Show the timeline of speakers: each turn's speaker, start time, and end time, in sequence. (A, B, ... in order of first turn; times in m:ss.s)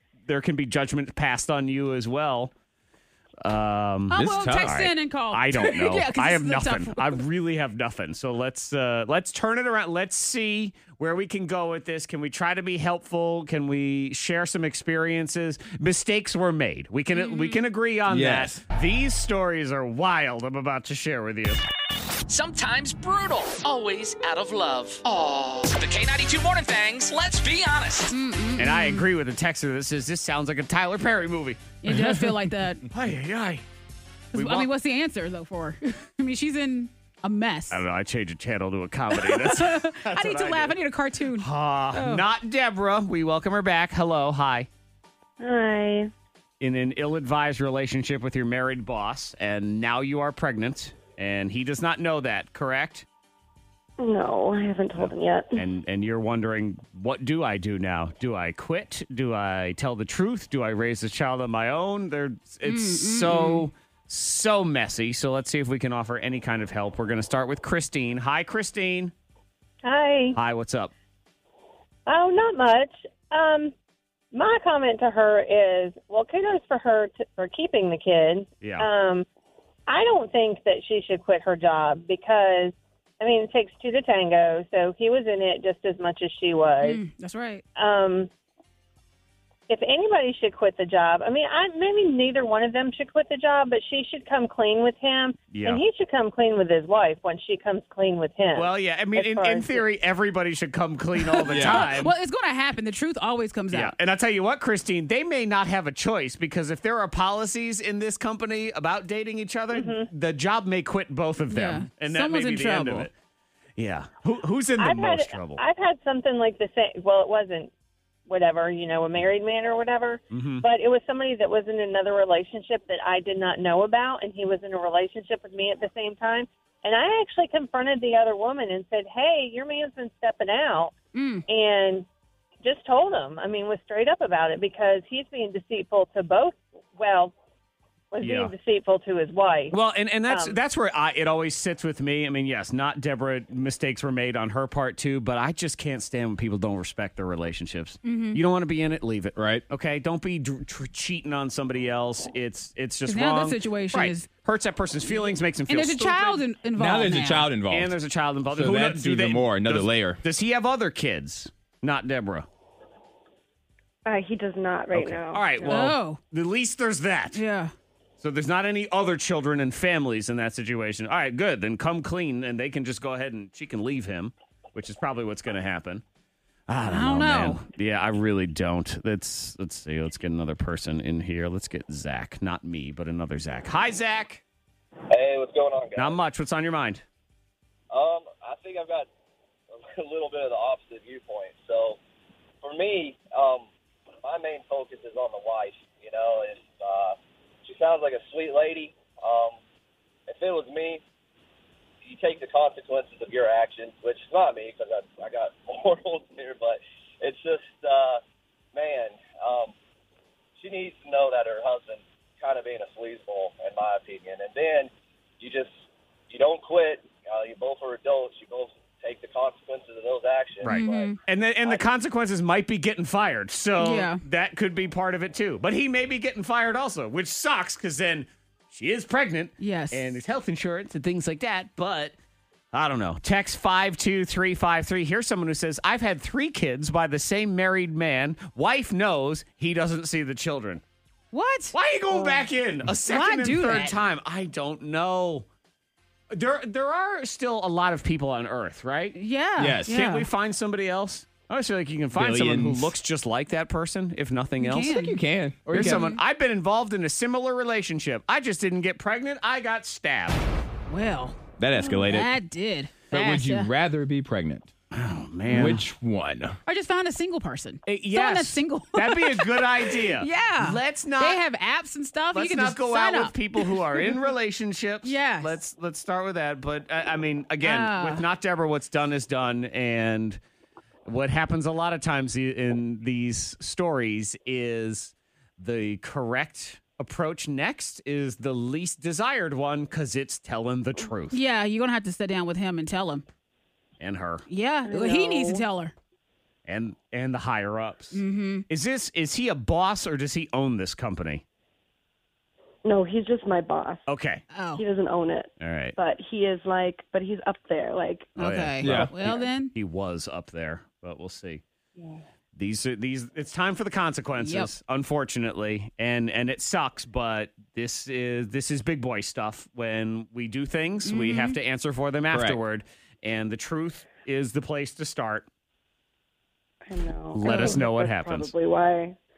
0:00.3-0:02.5 A
0:03.4-0:21.6 A
0:04.1-0:07.2 B
0:04.1-0:04.7 C
0:17.1-0:17.6 B
0:18.1-0:18.6 C
0:22.3-0:28.1 D
0:28.1-0:29.1 B
0:28.6-0:32.3 A
0:31.8-0:32.8 B
0:32.9-0:33.6 A
0:34.3-0:37.8 B
0:34.3-0:34.7 A
0:37.7-0:40.8 A
0:39.1-0:42.2 B
0:41.3-0:44.7 A
0:45.4-0:46.1 E
0:46.6-0:53.0 A
0:54.0-0:55.6 E
0:55.0-1:09.1 A
1:02.6-1:03.7 B
1:09.8-1:10.4 F
1:10.3-1:10.9 A
1:12.0-1:13.7 F
1:14.3-1:19.2 F
1:18.6-1:18.9 A
1:19.9-1:27.0 F
1:26.8-1:27.6 B
1:27.8-1:28.3 F
1:29.7-1:39.8 F
1:35.5-1:35.8 A
1:38.5-1:42.1 A
1:41.3-1:43.9 B
1:41.5-1:41.9 C
1:43.7-1:53.1 A
1:49.7-1:50.1 F
1:51.5-1:53.1 B
1:53.8-1:55.6 A
1:54.8-1:57.7 F
1:58.3-2:10.9 F
2:00.3-2:00.6 A
2:11.1-2:11.4 B
2:11.5-2:12.0 F
2:12.6-2:17.3 F
2:18.1-2:19.7 F
2:18.2-2:18.5 A
2:19.7-2:36.4 A
2:20.3-2:20.6 F
2:28.0-2:28.4 B
2:29.4-2:29.6 C
2:33.0-2:34.3 B
2:35.7-2:37.5 B
2:36.8-2:38.0 C
2:37.7-2:42.5 A
2:38.5-2:40.2 C
2:44.0-2:45.8 E
2:44.9-2:47.4 A
2:45.6-2:46.2 B
2:47.3-2:47.7 B
2:48.2-2:56.0 A
2:56.7-3:04.4 A
2:56.8-2:57.6 B
3:05.1-3:06.2 G
3:06.0-3:07.0 A
3:07.9-3:09.1 G
3:09.7-3:12.0 G
3:12.6-3:13.7 G
3:14.2-3:19.6 G
3:20.3-3:21.0 G
3:22.0-3:28.2 G
3:28.7-3:29.7 G
3:30.6-3:35.7 G
3:36.3-3:41.8 G
3:40.6-3:52.1 A
3:40.6-3:41.2 B
3:43.8-3:44.2 B
3:49.6-3:50.0 B
3:52.7-4:00.8 A
4:01.3-4:02.4 B
4:01.7-4:05.5 A
4:03.1-4:04.0 B
4:06.3-4:09.2 A
4:09.2-4:10.3 B
4:09.6-4:10.0 C
4:09.9-4:14.9 A
4:12.1-4:12.9 C
4:14.6-4:15.2 B
4:14.9-4:16.0 C
4:15.7-4:20.4 A
4:15.7-4:16.2 B
4:20.9-4:23.7 B
4:21.6-4:22.3 C
4:23.1-4:24.7 C
4:24.9-4:25.8 A
4:25.5-4:26.6 C
4:26.6-4:34.2 B
4:27.8-4:31.4 A
4:32.3-4:40.4 A
4:35.0-4:35.6 B
4:37.6-4:38.2 B
4:41.1-4:51.4 A
4:51.3-4:53.2 B
4:54.0-4:54.4 A
4:54.5-4:55.9 B
4:54.8-4:55.6 E
4:56.7-5:01.4 A
4:58.1-4:58.6 B
5:02.8-5:04.0 E
5:04.0-5:04.4 A
5:04.5-5:04.8 B
5:04.7-5:08.3 E
5:05.6-5:05.9 A
5:08.4-5:11.6 A
5:08.4-5:09.7 B
5:08.8-5:09.1 C
5:12.5-5:25.5 A
5:14.4-5:14.7 B
5:21.0-5:21.6 B
5:22.3-5:22.6 C
5:26.8-5:29.2 E
5:27.3-5:28.5 A
5:27.4-5:27.8 B